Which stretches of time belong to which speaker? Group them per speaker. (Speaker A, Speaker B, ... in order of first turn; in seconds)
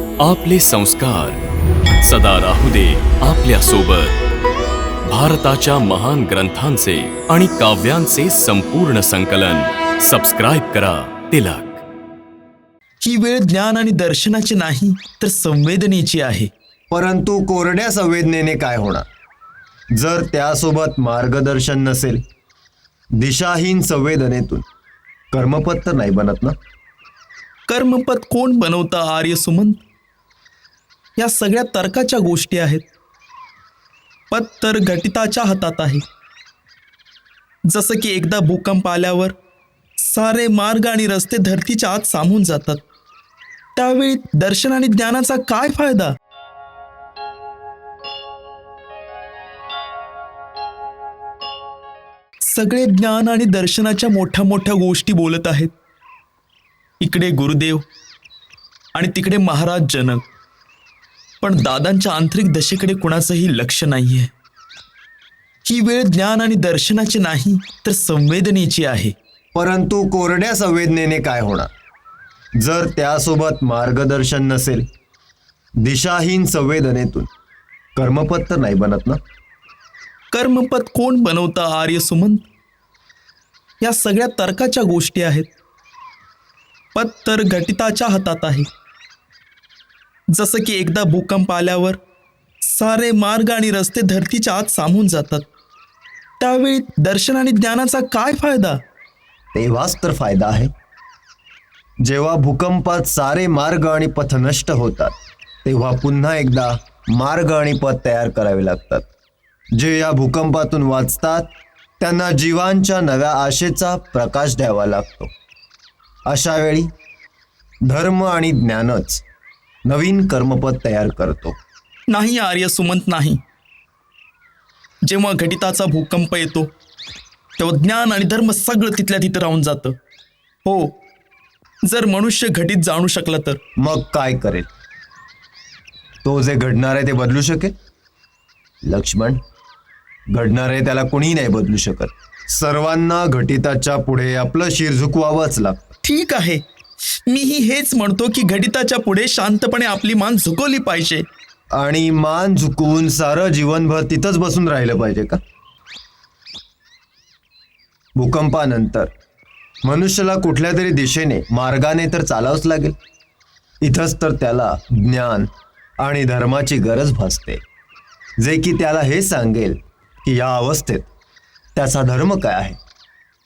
Speaker A: 0.2-1.4, 2.0-4.2, 5.0-11.8
Speaker B: 13.0-16.5, 27.7-29.8, 31.1-32.9, 34.3-36.0, 37.7-39.3, 40.0-42.8, 43.8-46.1, 52.4-55.7, 57.0-57.8, 58.9-60.2, 61.4-64.3, 65.6-69.1, 80.3-82.5, 83.8-85.5, 86.9-88.7, 90.3-92.0, 92.6-95.5, 96.4-98.8, 122.1-123.4, 125.0-126.7, 127.6-130.0, 130.6-131.0, 131.8-133.6, 146.0-151.2
Speaker C: 16.9-19.1, 19.9-22.2, 23.1-24.6, 25.3-26.6, 69.5-71.7, 72.6-74.9, 75.8-77.3, 78.0-79.2, 99.5-100.7, 102.0-105.1, 105.6-109.1, 109.7-115.3, 116.3-116.9, 117.8-119.2, 119.8-121.6, 133.8-134.7, 136.2-137.7, 138.8-139.4, 140.3-145.9, 151.8-155.4, 158.2-159.1, 159.8-163.0, 163.8-165.5, 166.0-167.6, 168.4-171.1, 171.7-172.8